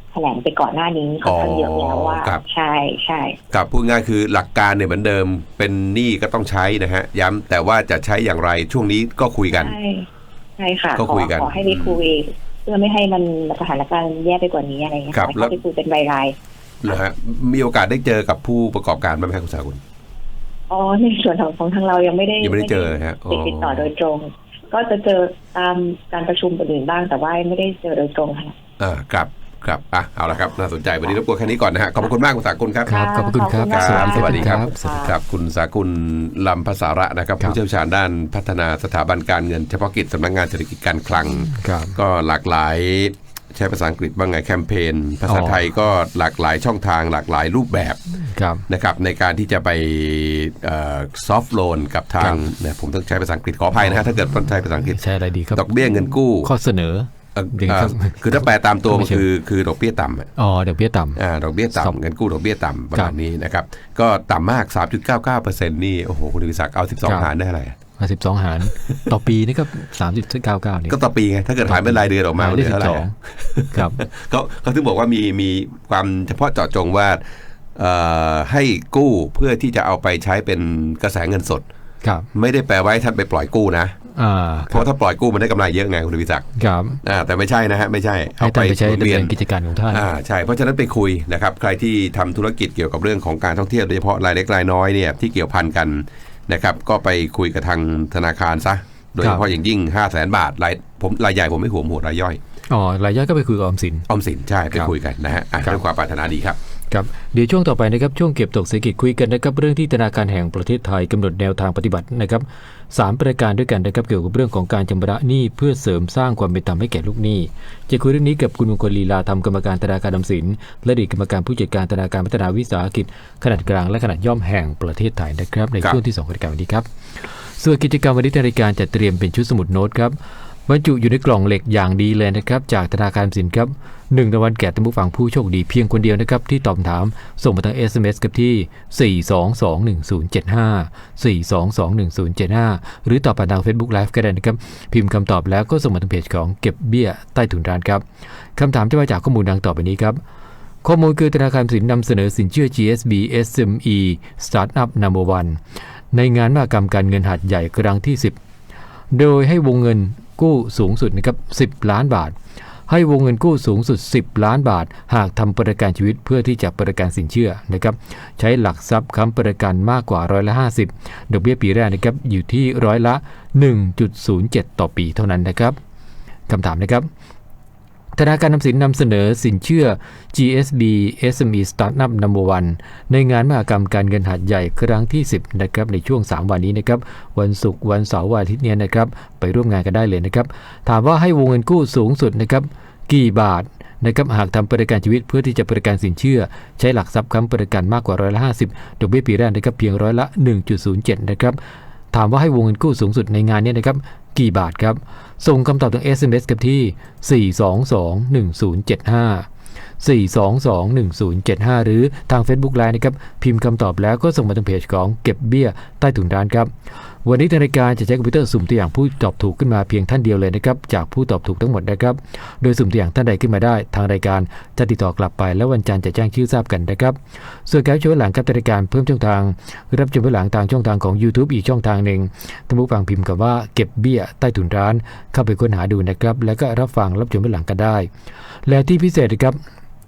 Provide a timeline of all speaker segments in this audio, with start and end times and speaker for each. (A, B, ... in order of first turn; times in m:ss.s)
0:00.1-0:03.4 A
0:01.2-0:02.4 B
0:03.5-0:09.8 B
0:09.5-0:16.4 A
0:11.0-0:12.0 B
0:15.1-0:15.6 B
0:16.8-0:19.8 B
0:20.7-0:28.6 A
0:22.4-0:23.9 B
0:28.8-0:33.0 B
0:32.9-0:34.8 C
0:32.9-0:35.2 A
0:33.7-0:48.0 B
0:41.5-0:42.0 C
0:45.3-0:45.6 C
0:48.2-0:48.7 C
0:48.7-0:55.0 B
0:53.8-0:54.3 C
0:54.9-0:59.2 C
0:55.5-0:56.5 B
0:57.4-1:00.3 B
1:00.4-1:01.2 C
1:01.2-1:07.8 B
1:08.0-1:11.0 C
1:08.7-1:09.0 B
1:10.9-1:17.2 B
1:11.7-1:13.1 C
1:13.7-1:14.0 C
1:17.8-1:21.7 B
1:22.3-1:24.0 B
1:24.2-1:24.9 C
1:24.7-1:26.5 B
1:26.6-1:27.0 C
1:27.0-1:29.3 B
1:28.4-1:30.0 C
1:29.9-1:42.4 B
1:39.2-1:39.5 C
1:42.7-1:44.1 C
1:44.1-1:46.6 B
1:46.9-2:06.9 C
2:07.6-2:10.2 C
2:10.7-2:28.0 C
2:28.6-2:30.2 C
2:30.8-2:35.6 C
2:36.1-2:38.4 C
2:39.1-2:42.4 C
2:42.9-2:55.8 C
2:56.5-2:57.1 C
2:58.2-3:21.6 C
3:22.1-3:29.5 C
3:30.0-3:36.7 C
3:37.2-3:58.1 C
3:58.7-3:59.6 C